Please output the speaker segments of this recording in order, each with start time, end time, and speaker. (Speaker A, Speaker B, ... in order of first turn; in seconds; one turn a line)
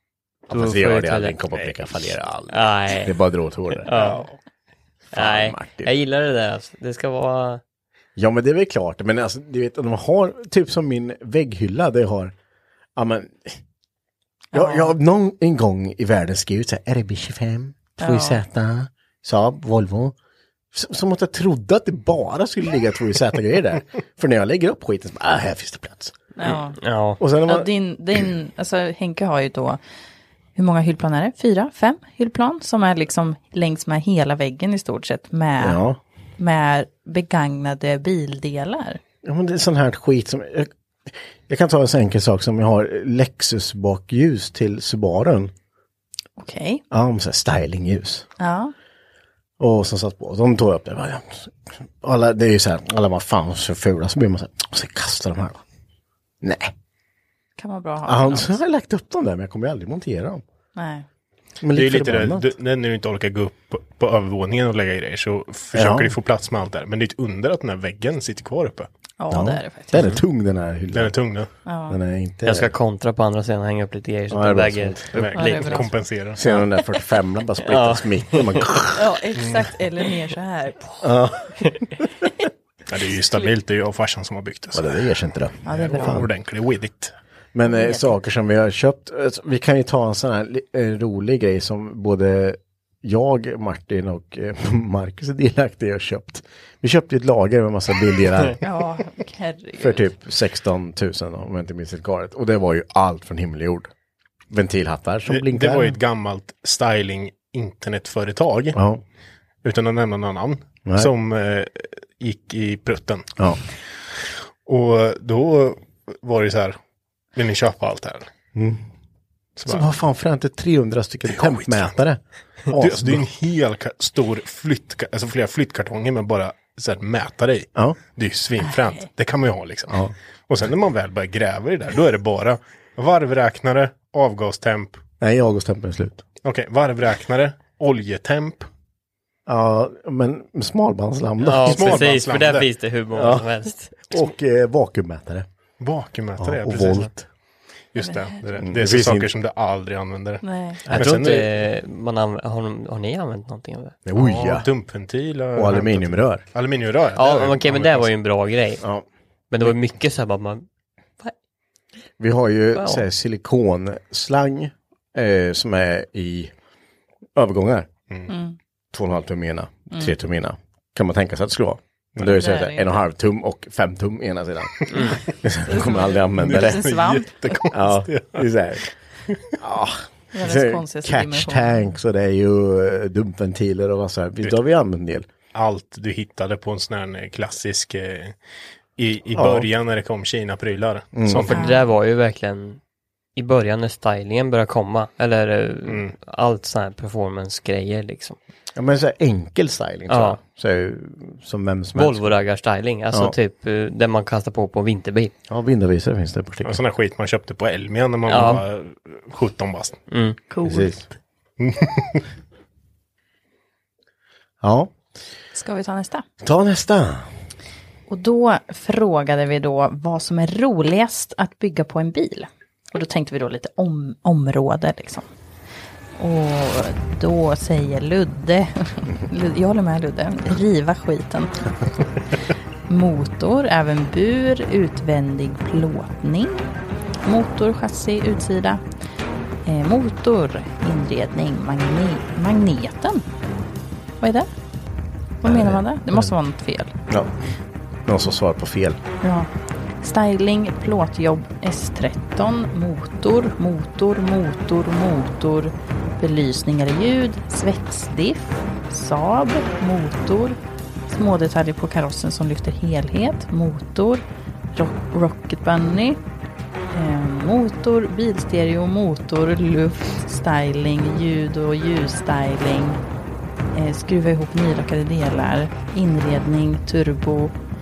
Speaker A: 0.5-3.9
Speaker B: 0.5-1.4
Speaker B: 2.5-3.2
Speaker B: 3.8-4.3
Speaker C: 3.9-4.4
Speaker A: 5.1-5.9
Speaker B: 5.1-7.6
Speaker A: 8.2-12.3
Speaker A: 13.0-13.6
Speaker D: 14.5-14.9
Speaker A: 14.5-20.2
Speaker D: 18.0-18.4
Speaker A: 20.7-26.3
Speaker D: 26.4-26.8
Speaker B: 26.8-27.2
Speaker A: 27.2-27.7
Speaker D: 27.5-29.8
Speaker D: 30.6-35.8
Speaker A: 35.6-36.0
Speaker D: 36.4-39.0
Speaker A: 39.2-45.5
Speaker D: 46.4-46.8
Speaker A: 46.9-48.3
Speaker D: 48.4-48.7
Speaker A: 49.6-55.6
Speaker A: 56.4-56.7
Speaker D: 57.6-58.6
Speaker A: 58.1-60.4
Speaker D: 60.8-61.0
Speaker A: 61.6-62.5
Speaker C: 61.7-68.9
Speaker A: 65.7-66.1
Speaker D: 69.2-70.0
Speaker A: 69.3-71.2
Speaker C: 70.0-70.2
Speaker C: 70.9-71.5
Speaker D: 71.7-72.0
Speaker A: 71.9-72.7
Speaker B: 72.5-75.9
Speaker A: 74.3-75.1
Speaker C: 75.1-76.4
Speaker D: 75.3-75.9
Speaker A: 76.4-79.0
Speaker B: 77.7-78.7
Speaker D: 79.0-81.1
Speaker C: 79.4-79.6
Speaker A: 81.0-82.0
Speaker C: 82.9-84.9
Speaker A: 84.7-86.3
Speaker D: 85.7-86.2
Speaker C: 85.7-87.1
Speaker A: 87.5-98.6
Speaker D: 87.7-88.1
Speaker D: 98.6-100.1
Speaker A: 99.8-103.9
Speaker A: 104.5-106.0
Speaker C: 105.3-108.8
Speaker A: 108.7-109.0
Speaker C: 109.6-113.3
Speaker A: 110.9-111.1
Speaker C: 114.7-116.8
Speaker C: 117.3-118.3
Speaker A: 118.5-118.8
Speaker C: 119.6-119.9
Speaker A: 119.7-122.2
Speaker C: 121.3-121.9
Speaker A: 122.7-123.3
Speaker C: 122.7-135.0
Speaker A: 135.2-136.2
Speaker C: 136.4-138.7
Speaker A: 139.5-142.1
Speaker B: 141.4-144.1
Speaker C: 141.6-142.7
Speaker A: 143.1-143.5
Speaker A: 144.1-145.5
Speaker C: 145.8-147.1
Speaker A: 146.4-147.2
Speaker C: 147.9-151.5
Speaker D: 148.0-148.4
Speaker A: 148.6-149.3
Speaker D: 150.4-150.8
Speaker A: 150.9-151.2
Speaker B: 150.9-154.0
Speaker A: 154.1-154.7
Speaker C: 154.2-158.1
Speaker A: 155.6-156.4
Speaker B: 157.2-158.8
Speaker B: 159.5-160.7
Speaker A: 162.2-166.5
Speaker B: 162.8-163.0
Speaker A: 167.3-167.9
Speaker D: 168.3-168.6
Speaker A: 168.9-176.8
Speaker D: 172.3-172.9
Speaker D: 175.7-177.5
Speaker C: 176.4-179.6
Speaker A: 177.7-178.8
Speaker A: 179.6-185.3
Speaker D: 180.3-182.0
Speaker C: 185.5-188.4
Speaker C: 189.0-191.7
Speaker A: 189.3-189.7
Speaker A: 191.2-191.5
Speaker B: 191.4-192.8
Speaker D: 191.5-191.8
Speaker B: 193.4-198.4
Speaker C: 195.9-196.1
Speaker A: 198.8-202.3
Speaker B: 200.1-200.4
Speaker B: 202.0-205.3
Speaker A: 205.5-206.8
Speaker C: 206.7-210.0
Speaker B: 208.3-208.6
Speaker B: 210.1-210.4
Speaker D: 210.5-210.9
Speaker A: 210.7-211.0
Speaker C: 211.6-212.2
Speaker A: 214.6-214.9
Speaker D: 215.5-216.2
Speaker A: 216.4-217.3
Speaker D: 218.1-225.3
Speaker D: 226.2-231.7
Speaker D: 232.9-236.6
Speaker D: 237.2-238.8
Speaker D: 239.7-243.2
Speaker D: 244.2-244.5
Speaker D: 245.4-246.9
Speaker A: 245.4-246.3
Speaker A: 247.1-247.3
Speaker A: 248.1-249.0
Speaker D: 249.2-249.5
Speaker D: 250.0-264.2
Speaker D: 264.7-266.2
Speaker D: 266.9-273.0
Speaker D: 273.7-277.6